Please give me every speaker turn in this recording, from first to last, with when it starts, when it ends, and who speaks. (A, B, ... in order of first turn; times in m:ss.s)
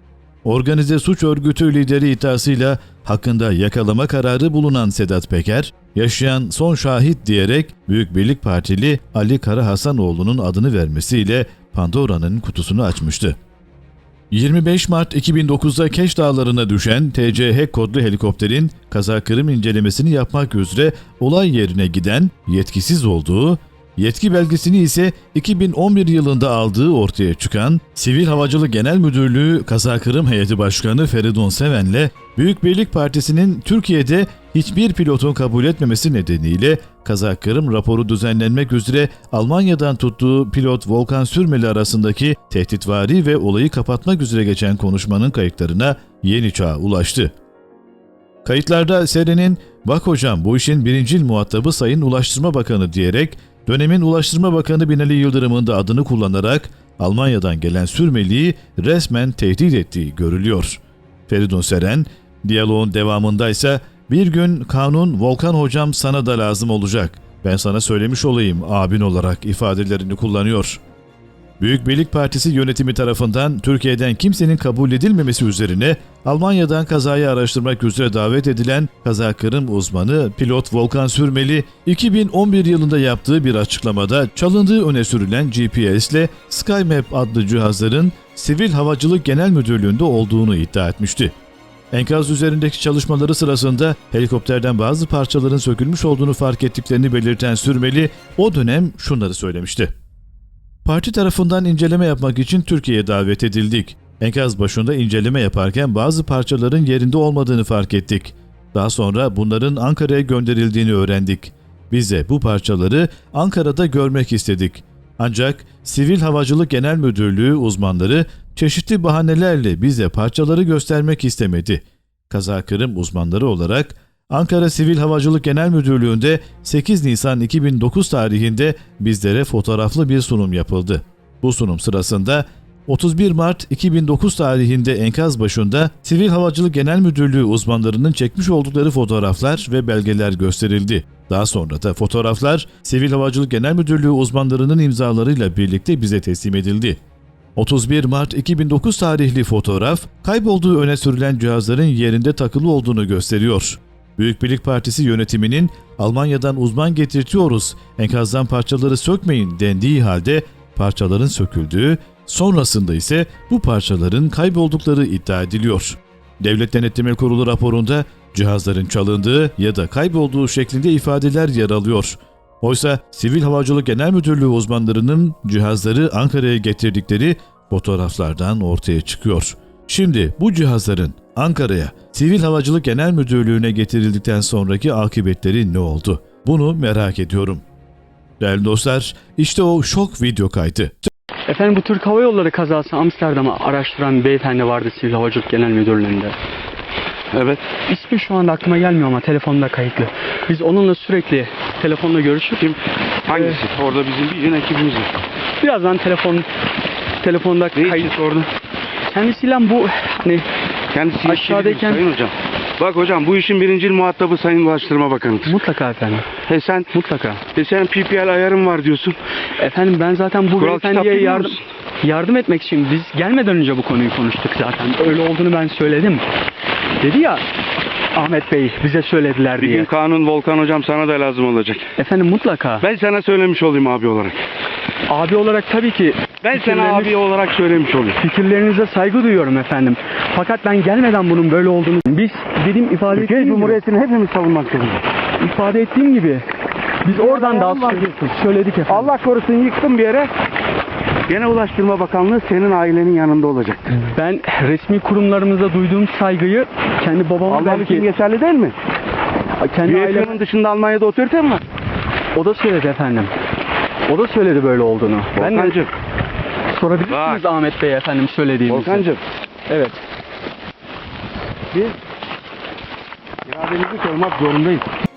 0:00.4-0:13.4 A
0:14.3-0:47.3 A
0:48.4-1:10.8 A
1:11.6-1:31.3 A
1:31.9-1:39.9 A
1:40.8-2:27.0 A
2:27.6-3:07.6 A
3:08.4-3:11.0 A
3:11.5-3:16.4 B
3:17.3-3:17.6 C
3:17.9-3:22.8 B
3:22.6-3:25.2 C
3:23.3-3:23.6 B
3:25.6-3:26.5 B
3:27.2-3:28.1 B
3:27.8-3:28.5 C
3:29.1-3:30.5 B
3:30.9-3:35.6 C
3:31.2-3:32.1 B
3:35.5-3:36.4 B
3:36.4-3:36.9 C
3:36.9-3:37.4 B
3:37.5-3:39.2 C
3:39.6-3:46.3 B
3:40.6-3:41.6 C
3:47.0-3:47.4 B
3:48.1-3:49.9 B
3:49.6-3:51.9 C
3:52.0-3:52.8 B
3:52.8-3:54.4 C
3:55.1-3:57.2 B
3:56.4-3:58.2 C
3:58.2-4:03.8 B
4:03.1-4:05.0 C
4:05.4-4:06.5 B
4:07.0-4:09.1 B
4:07.1-4:08.1 C
4:08.9-4:10.3 C
4:11.3-4:14.0 C
4:13.9-4:18.1 B
4:17.5-4:18.8 C
4:19.6-4:20.4 B
4:19.8-4:21.6 C
4:22.4-4:23.3 B
4:24.1-4:25.8 B
4:25.4-4:25.9 C
4:26.7-4:29.0 B
4:27.1-4:27.4 C
4:28.7-4:29.2 C
4:29.7-4:30.0 B
4:33.4-4:34.9 C